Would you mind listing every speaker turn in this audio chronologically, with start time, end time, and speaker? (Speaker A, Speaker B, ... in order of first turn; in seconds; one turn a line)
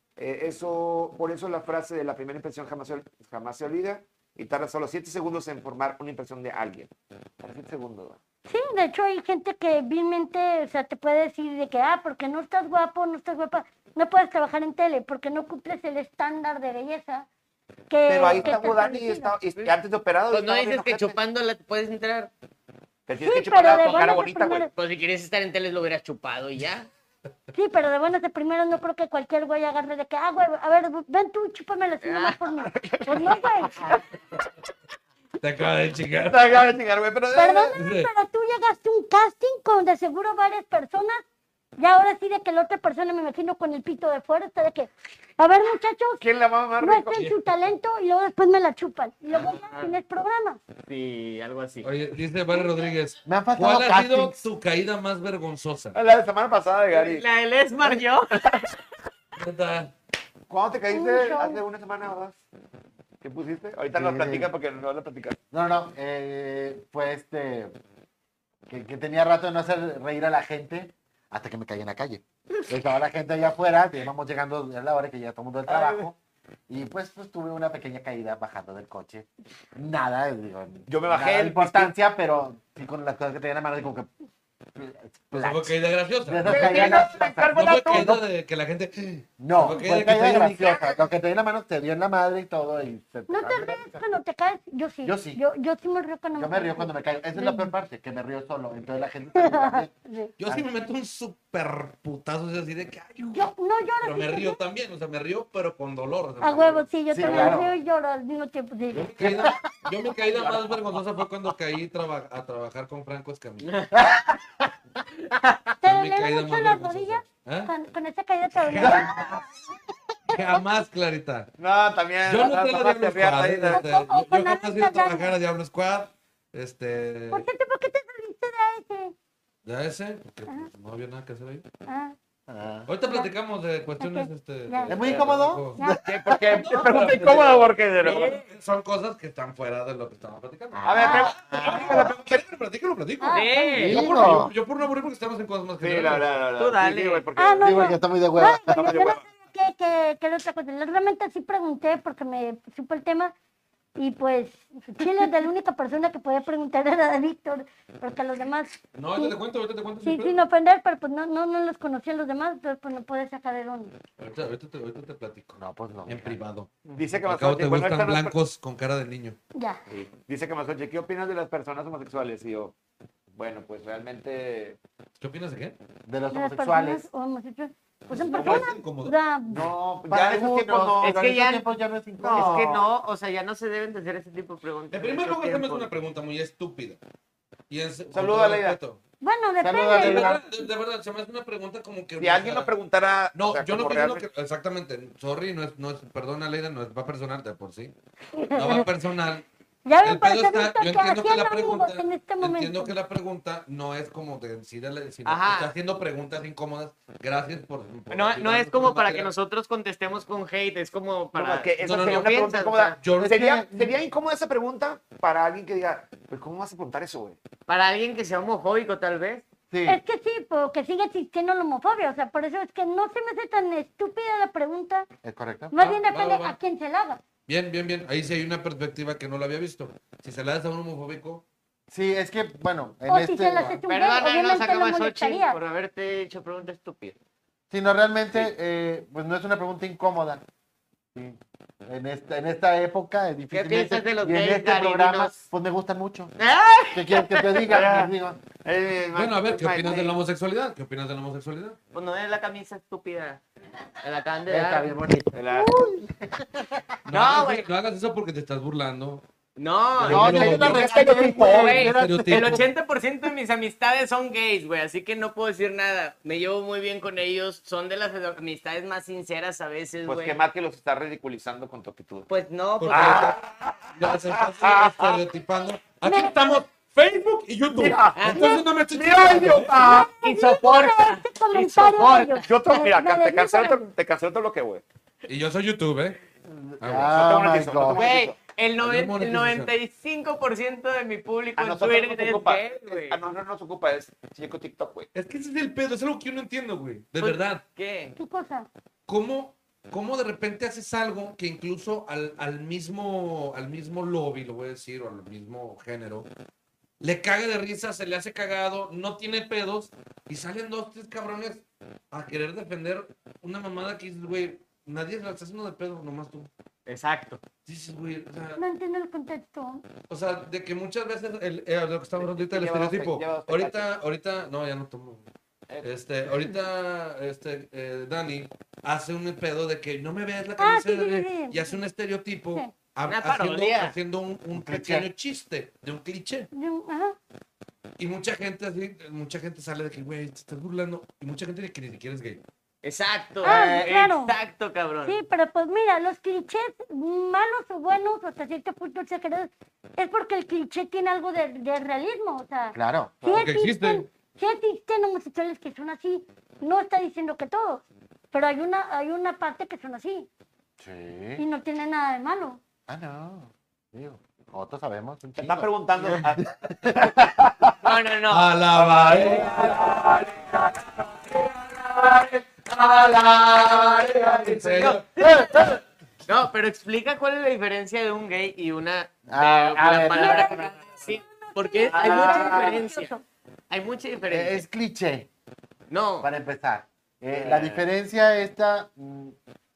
Speaker A: 0.2-8.2
Speaker B: 8.5-17.3
Speaker B: 17.9-19.3
Speaker A: 18.1-21.2
Speaker C: 20.3-22.3
Speaker A: 23.1-24.7
Speaker B: 23.2-24.7
Speaker C: 24.7-26.9
Speaker B: 27.5-33.9
Speaker C: 32.0-32.4
Speaker A: 32.8-33.2
Speaker D: 35.4-36.6
Speaker A: 36.2-37.7
Speaker B: 37.3-41.2
Speaker D: 37.7-38.1
Speaker B: 41.8-46.2
Speaker A: 46.2-47.3
Speaker B: 46.8-50.6
Speaker C: 49.3-49.9
Speaker C: 50.9-51.9
Speaker D: 51.8-56.0
Speaker E: 53.2-54.4
Speaker A: 55.9-57.2
Speaker C: 56.9-58.8
Speaker D: 59.4-59.9
Speaker A: 60.5-62.4
Speaker B: 60.9-61.6
Speaker A: 63.2-65.4
Speaker E: 63.9-64.5
Speaker E: 65.5-67.7
Speaker E: 68.7-76.1
Speaker A: 75.7-76.0
Speaker E: 76.7-84.1
Speaker A: 80.9-81.9
Speaker E: 84.8-88.2
Speaker D: 85.3-90.8
Speaker A: 86.4-88.2
Speaker E: 89.4-94.0
Speaker B: 93.3-97.7
Speaker E: 95.0-95.4
Speaker E: 96.3-99.9
Speaker B: 99.3-100.3
Speaker D: 100.4-103.5
Speaker B: 103.3-104.6
Speaker D: 104.0-107.6
Speaker B: 106.4-109.0
Speaker E: 107.1-107.7
Speaker D: 108.9-113.7
Speaker E: 109.2-109.7
Speaker C: 113.6-113.9
Speaker E: 113.9-114.4
Speaker B: 115.8-119.3
Speaker D: 115.8-117.7
Speaker D: 118.5-119.4
Speaker E: 118.8-119.4
Speaker D: 120.3-121.5
Speaker A: 121.6-123.8
Speaker D: 122.2-127.5
Speaker B: 123.7-125.3
Speaker B: 127.3-129.1
Speaker D: 129.6-131.6
Speaker B: 131.8-132.1
Speaker E: 132.5-132.9
Speaker D: 132.9-135.8
Speaker B: 133.1-133.3
Speaker B: 134.0-135.0
Speaker E: 134.9-136.0
Speaker A: 136.0-138.3
Speaker D: 136.5-146.4
Speaker C: 138.0-138.4
Speaker E: 140.7-142.1
Speaker A: 140.8-142.4
Speaker B: 141.0-141.9
Speaker B: 143.2-144.1
Speaker C: 143.3-144.0
Speaker E: 143.8-144.5
Speaker A: 145.8-147.9
Speaker C: 146.6-147.2
Speaker B: 147.3-153.3
Speaker E: 147.6-148.9
Speaker A: 148.7-149.2
Speaker B: 154.0-159.4
Speaker D: 158.9-160.4
Speaker B: 160.0-163.9
Speaker D: 164.2-169.4
Speaker E: 165.6-166.4
Speaker A: 166.9-168.3
Speaker B: 169.5-169.8
Speaker A: 169.9-172.7
Speaker A: 173.3-174.8
Speaker D: 175.2-175.8
Speaker E: 176.1-177.1
Speaker B: 176.3-179.6
Speaker D: 178.1-179.1
Speaker A: 178.3-178.7
Speaker A: 179.5-181.2
Speaker E: 179.5-182.8
Speaker C: 181.0-181.6
Speaker A: 182.2-182.8
Speaker C: 182.3-185.9
Speaker D: 184.9-187.0
Speaker D: 187.7-189.0
Speaker A: 188.1-188.8
Speaker B: 189.2-190.4
Speaker E: 189.6-190.4
Speaker D: 189.9-192.7
Speaker A: 192.2-194.2
Speaker D: 193.3-197.9
Speaker B: 198.3-198.9
Speaker D: 198.5-199.4
Speaker B: 199.8-202.9
Speaker D: 200.0-209.3
Speaker C: 205.2-205.7
Speaker C: 208.1-213.0
Speaker A: 211.3-217.4
Speaker D: 211.8-213.4
Speaker E: 213.2-213.9
Speaker C: 217.7-219.4
Speaker E: 219.7-220.0
Speaker B: 219.9-225.1
Speaker E: 225.2-225.7
Speaker B: 225.7-227.2
Speaker D: 225.8-226.6
Speaker D: 227.5-231.4
Speaker E: 231.9-233.8
Speaker B: 233.1-235.6
Speaker C: 233.9-237.2
Speaker E: 237.7-240.4
Speaker E: 241.1-246.3
Speaker C: 243.5-245.4
Speaker C: 246.4-247.7
Speaker E: 246.9-248.4
Speaker A: 247.7-248.1
Speaker A: 248.6-250.1
Speaker D: 249.1-251.8
Speaker C: 251.9-253.4
Speaker C: 254.0-254.9
Speaker E: 254.5-256.9
Speaker A: 255.3-255.8
Speaker D: 257.1-259.2
Speaker C: 257.1-257.7
Speaker C: 259.6-270.4
Speaker D: 260.0-260.9
Speaker E: 260.0-262.6
Speaker A: 260.1-261.9
Speaker D: 261.9-262.7
Speaker A: 270.1-272.3
Speaker C: 272.3-273.3
Speaker D: 272.8-273.4
Speaker A: 272.9-275.2
Speaker D: 273.9-279.9
Speaker B: 276.0-276.6
Speaker A: 277.7-280.1
Speaker C: 278.1-278.6
Speaker B: 279.8-283.9
Speaker C: 279.9-282.5
Speaker A: 282.4-284.8
Speaker D: 285.3-286.2
Speaker E: 286.5-288.1
Speaker D: 286.8-287.1
Speaker A: 287.1-288.3
Speaker C: 287.9-293.2
Speaker D: 288.8-289.7
Speaker A: 291.6-295.1
Speaker D: 295.1-297.6
Speaker C: 297.2-298.2
Speaker B: 298.1-298.7
Speaker D: 299.1-306.3
Speaker D: 307.0-316.5
Speaker C: 316.9-317.4
Speaker D: 317.6-318.6
Speaker B: 318.6-319.8
Speaker D: 320.1-325.3
Speaker A: 322.2-324.0
Speaker A: 325.7-326.5
Speaker D: 325.8-336.5
Speaker B: 330.6-331.8
Speaker C: 333.1-333.9
Speaker E: 334.5-335.1
Speaker B: 336.5-337.2
Speaker D: 338.0-342.4
Speaker C: 342.8-345.2
Speaker B: 343.4-344.3
Speaker E: 343.4-343.9
Speaker B: 345.0-360.3
Speaker E: 352.7-353.2
Speaker D: 353.3-354.1
Speaker E: 360.8-361.4
Speaker B: 361.4-362.6
Speaker E: 362.9-367.7
Speaker A: 365.4-367.7
Speaker C: 367.8-368.5
Speaker D: 368.3-369.9
Speaker A: 368.8-370.8
Speaker D: 371.3-375.1
Speaker A: 374.3-374.9
Speaker C: 374.6-383.1
Speaker E: 379.3-380.7
Speaker B: 380.1-383.2
Speaker E: 381.9-382.8
Speaker C: 383.7-384.6
Speaker E: 384.3-385.3
Speaker C: 385.9-386.3
Speaker E: 386.2-389.4
Speaker C: 387.4-387.8